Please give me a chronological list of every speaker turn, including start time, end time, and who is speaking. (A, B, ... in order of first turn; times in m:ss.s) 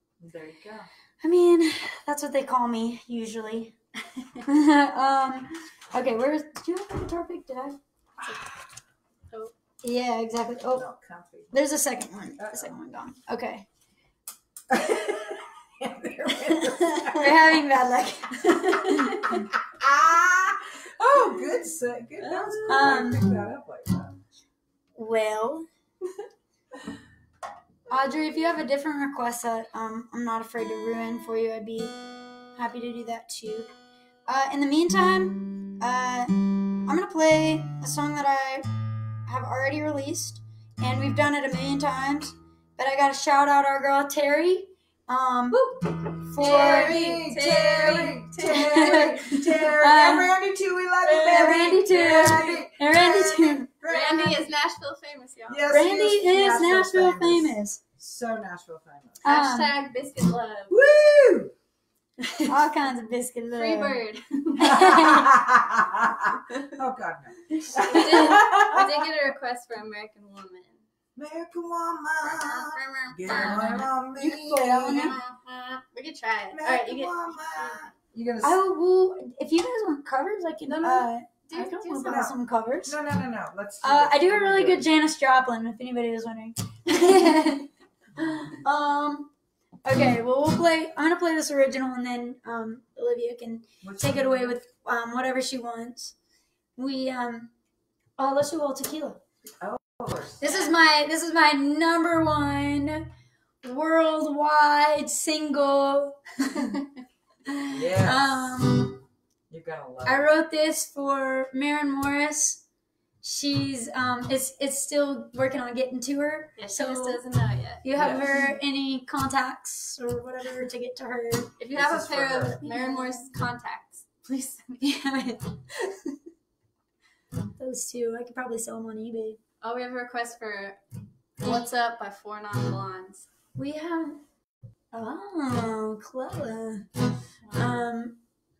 0:00.2-0:00.9 A
0:01.2-0:03.7 B
0:04.4-0:07.8 B
0:08.2-0:08.5 C
0:09.8-0:10.8 B
0:10.7-0:11.6 A
0:11.5-0:13.6 B
0:12.4-0:12.7 A
0:14.7-0:17.4 A
0:16.5-0:19.4 B
0:19.3-0:24.2 A
0:22.2-0:23.0 C
0:22.7-0:23.4 B
0:25.0-0:25.7 B
0:27.9-0:31.9 B
0:32.5-0:33.7 B
0:34.3-0:38.7 B
0:39.2-0:47.6 B
0:46.4-0:54.4 A
0:46.4-0:49.3 C
0:48.4-0:50.3 B
0:51.0-0:53.7 B
0:53.8-0:55.6 C
0:55.5-0:59.2 A
0:55.7-0:57.8 B
0:59.2-0:59.7 B
0:59.2-1:00.8 C
1:00.7-1:01.5 A
1:02.5-1:04.0 B
1:03.5-1:05.1 C
1:04.6-1:05.3 B
1:04.7-1:09.0 A
1:06.5-1:06.7 C
1:07.8-1:10.8 C
1:07.8-1:08.4 B
1:11.2-1:15.2 A
1:12.3-1:15.2 B
1:13.3-1:13.8 C
1:15.0-1:17.2 C
1:16.5-1:18.6 A
1:18.4-1:23.0 B
1:20.6-1:22.2 C
1:22.0-1:24.8 A
1:23.8-1:29.3 B
1:29.8-1:36.1 B
1:33.8-1:34.6 A
1:36.8-1:37.5 B
1:38.2-1:39.2 B
1:39.6-1:40.5 A
1:40.4-1:43.1 B
1:43.6-1:46.8 B
1:47.4-1:49.0 B
1:47.7-1:48.6 A
1:49.5-1:50.3 A
1:50.0-1:52.6 B
1:53.2-1:57.2 B
1:56.6-1:57.8 C
1:57.8-2:01.6 B
1:58.0-1:58.3 A
2:01.6-2:05.4 C
2:01.7-2:02.6 A
2:02.5-2:03.3 B
2:07.6-2:09.4 B
2:09.6-2:10.8 C
2:11.4-2:13.2 C
2:13.6-2:14.2 B
2:14.9-2:16.9 B
2:17.4-2:17.8 C
2:17.6-2:18.2 B